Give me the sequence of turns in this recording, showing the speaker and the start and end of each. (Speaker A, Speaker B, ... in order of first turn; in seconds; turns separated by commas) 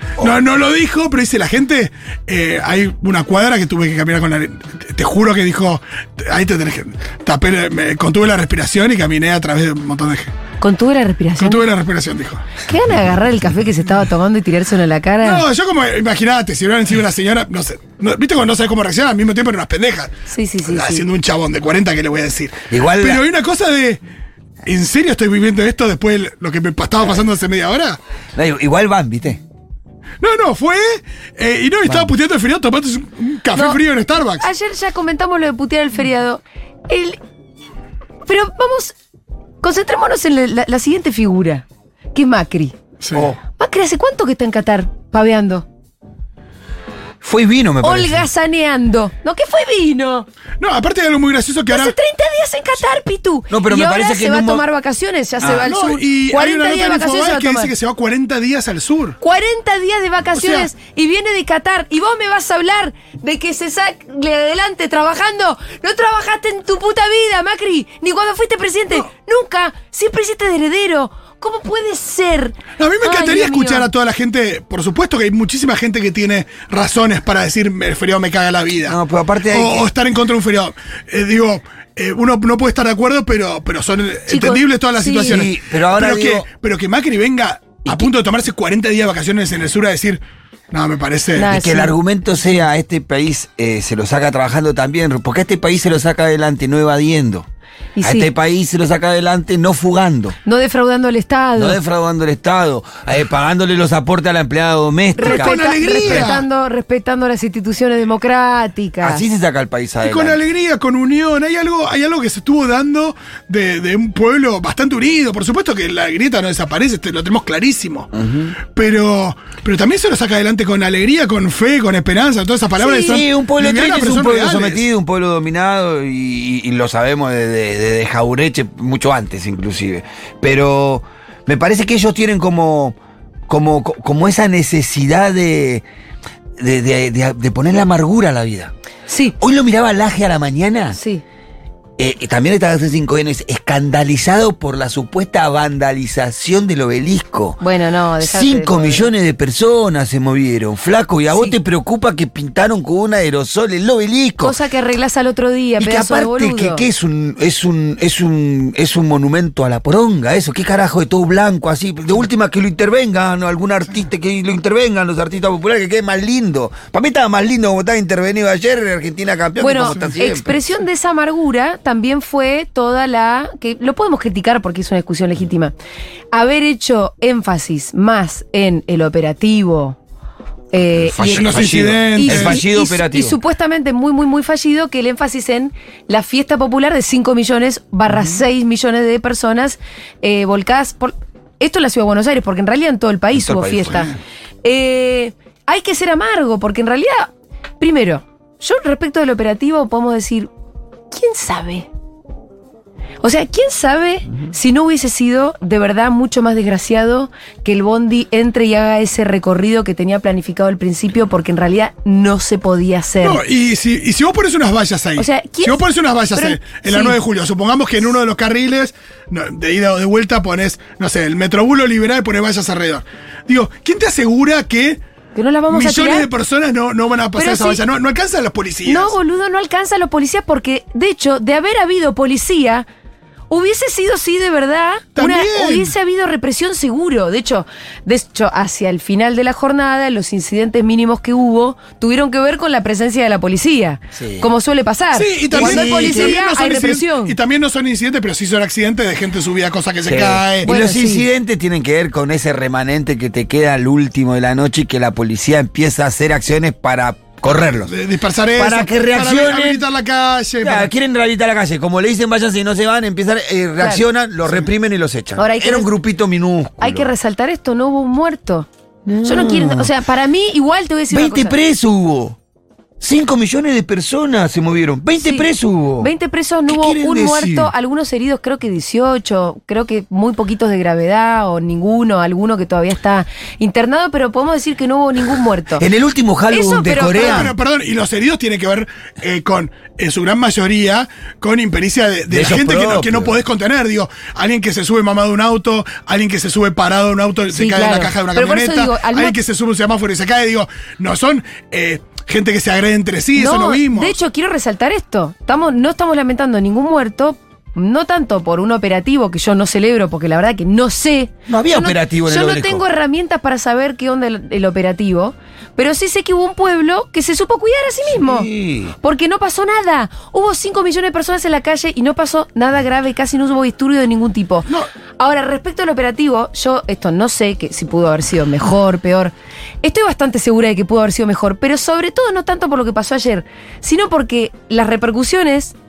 Speaker A: 0.2-10.3, Speaker B: 10.6-11.6, Speaker A: 11.4-12.4, Speaker B: 12.6-15.4, Speaker A: 15.2-24.0, Speaker B: 20.3-21.0, Speaker C: 22.7-23.2, Speaker A: 24.6-28.0, Speaker C: 28.4-29.4, Speaker A: 30.2-34.5, Speaker B: 33.5-37.2, Speaker B: 38.3-38.9, Speaker B: 39.6-42.8, Speaker A: 43.0-43.3, Speaker C: 43.1-43.4, Speaker B: 43.6-45.6, Speaker C: 47.2-48.2, Speaker B: 47.8-50.3, Speaker A: 50.6-51.9, Speaker B: 51.7-57.7, Speaker C: 53.5-54.6, Speaker C: 55.4-55.7, Speaker A: 55.5-59.2, Speaker B: 59.2-73.9, Speaker A: 60.4-60.7, Speaker A: 72.8-79.0, Speaker C: 78.8-79.9, Speaker A: 79.5-91.5, Speaker B: 84.3-85.5, Speaker C: 85.2-86.5, Speaker B: 91.3-91.9, Speaker C: 91.4-97.5, Speaker B: 98.0-98.3, Speaker C: 98.0-100.3, Speaker B: 100.4-101.8, Speaker C: 101.5-106.3, Speaker B: 105.2-109.2, Speaker A: 105.2-106.4, Speaker C: 109.0-110.4, Speaker A: 110.0-118.1, Speaker C: 118.1-118.5, Speaker A: 118.7-124.8, Speaker B: 122.8-123.2, Speaker C: 122.8-132.9, Speaker C: 133.5-135.8, Speaker C: 136.6-138.7, Speaker B: 139.1-139.3, Speaker C: 139.4-141.0, Speaker B: 140.9-141.2, Speaker C: 142.0-147.6, Speaker B: 147.6-149.1, Speaker C: 148.2-154.5, Speaker B: 154.4-156.8, Speaker C: 155.8-170.6, Speaker B: 169.6-175.7, Speaker B: 176.3-180.0, Speaker B: 180.7-194.1, Speaker C: 180.9-183.4, Speaker A: 181.3-182.6, Speaker C: 193.3-194.2, Speaker B: 194.6-200.5, Speaker B: 201.1-201.9, Speaker B: 203.2-213.4, Speaker A: 213.2-225.0, Speaker B: 215.2-215.8, Speaker B: 216.3-217.2, Speaker B: 225.3-226.3, Speaker A: 225.7-229.1, Speaker B: 227.3-227.8, Speaker B: 228.8-232.8, Speaker B: 233.5-247.3, Speaker A: 235.2-235.9, Speaker C: 244.2-244.5, Speaker A: 245.1-250.7, Speaker C: 245.5-246.4, Speaker C: 250.1-257.9, Speaker B: 250.6-251.2, Speaker A: 257.9-260.9, Speaker C: 258.5-259.8, Speaker C: 260.6-267.1, Speaker B: 265.4-265.9, Speaker B: 266.8-268.7, Speaker C: 269.1-269.9, Speaker B: 269.2-271.5, Speaker C: 271.1-272.4, Speaker C: 273.0-276.1, Speaker B: 275.2-275.5, Speaker B: 276.0-285.8, Speaker C: 276.7-277.7, Speaker C: 285.8-287.5, Speaker B: 286.5-287.5, Speaker A: 287.1-304.2, Speaker C: 292.3-293.4, Speaker B: 297.5-299.4, Speaker B: 303.3-335.7, Speaker C: 311.5-312.8, Speaker C: 318.1-318.9